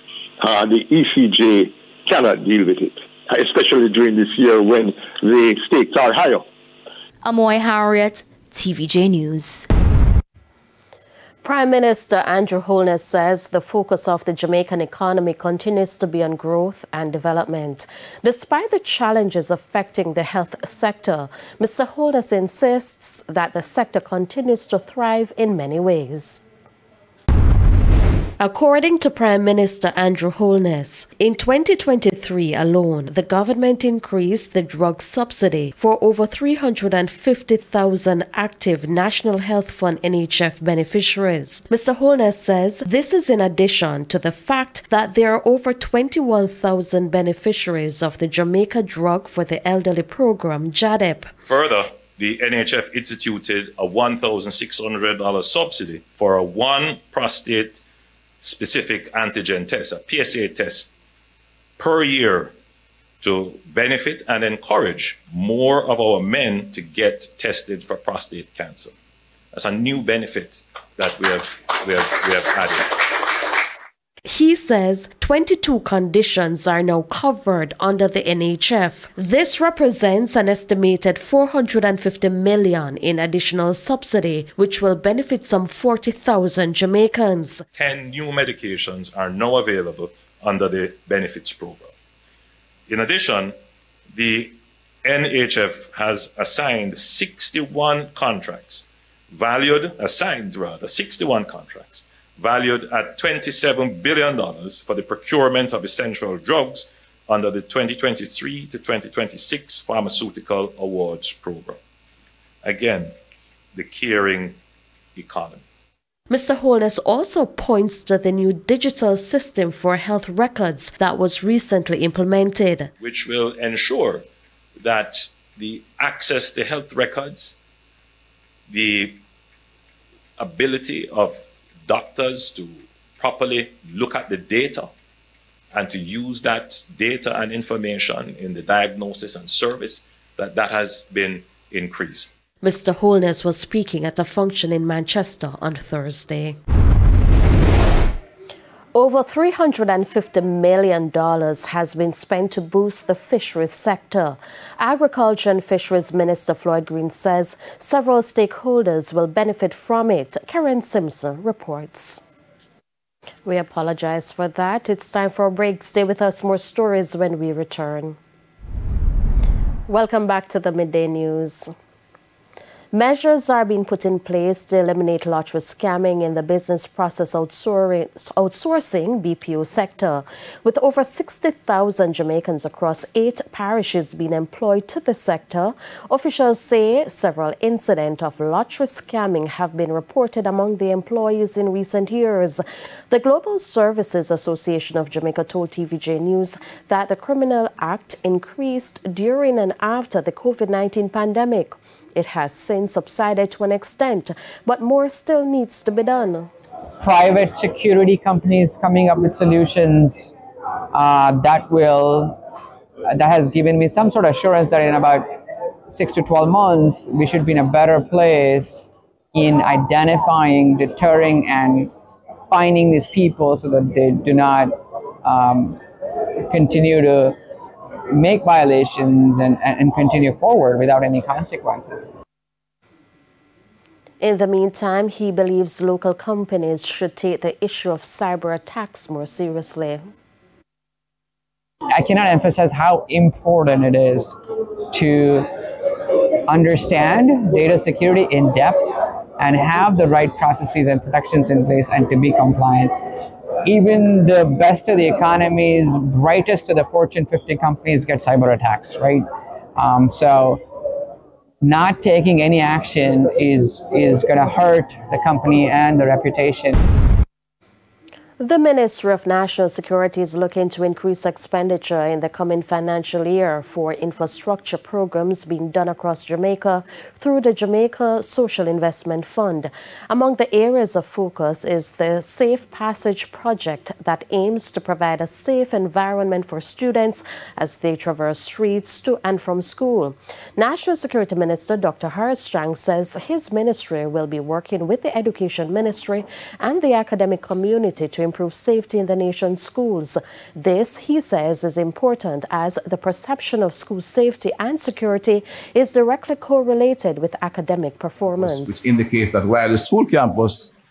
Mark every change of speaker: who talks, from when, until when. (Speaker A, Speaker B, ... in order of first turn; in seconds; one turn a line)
Speaker A: 0.4-6.4
Speaker B: 7.2-9.7
Speaker C: 11.4-26.4
Speaker C: 28.4-51.3
Speaker D: 51.5-57.8
Speaker D: 58.4-60.9
Speaker D: 61.8-62.5
Speaker D: 63.2-68.9
Speaker D: 69.5-73.5
Speaker C: 74.2-87.6
Speaker D: 87.8-91.9
Speaker D: 92.9-93.5
Speaker D: 94.1-111.8
Speaker D: 112.6-113.1
Speaker D: 113.7-114.6
Speaker D: 115.2-115.6
Speaker C: 116.3-122.9
Speaker D: 123.0-124.3
Speaker D: 124.8-127.6
Speaker D: 128.7-129.2
Speaker D: 130.4-131.4
Speaker D: 131.9-134.9
Speaker D: 135.7-142.3
Speaker C: 142.6-146.6
Speaker C: 148.9-162.2
Speaker C: 163.4-168.2
Speaker C: 169.9-171.7
Speaker C: 172.9-206.5
Speaker E: 207.0-210.3
Speaker E: 210.9-212.4
Speaker E: 213.1-215.3
Speaker E: 215.9-218.8
Speaker E: 219.3-221.9
Speaker E: 222.5-225.8
Speaker E: 226.5-227.4
Speaker E: 228.1-232.1
Speaker C: 234.2-240.0
Speaker E: 241.9-244.3
Speaker E: 244.9-245.5
Speaker E: 246.5-252.9
Speaker E: 253.7-259.2
Speaker E: 259.8-260.6
Speaker E: 261.6-266.8
Speaker C: 268.4-308.9
Speaker F: 308.4-310.7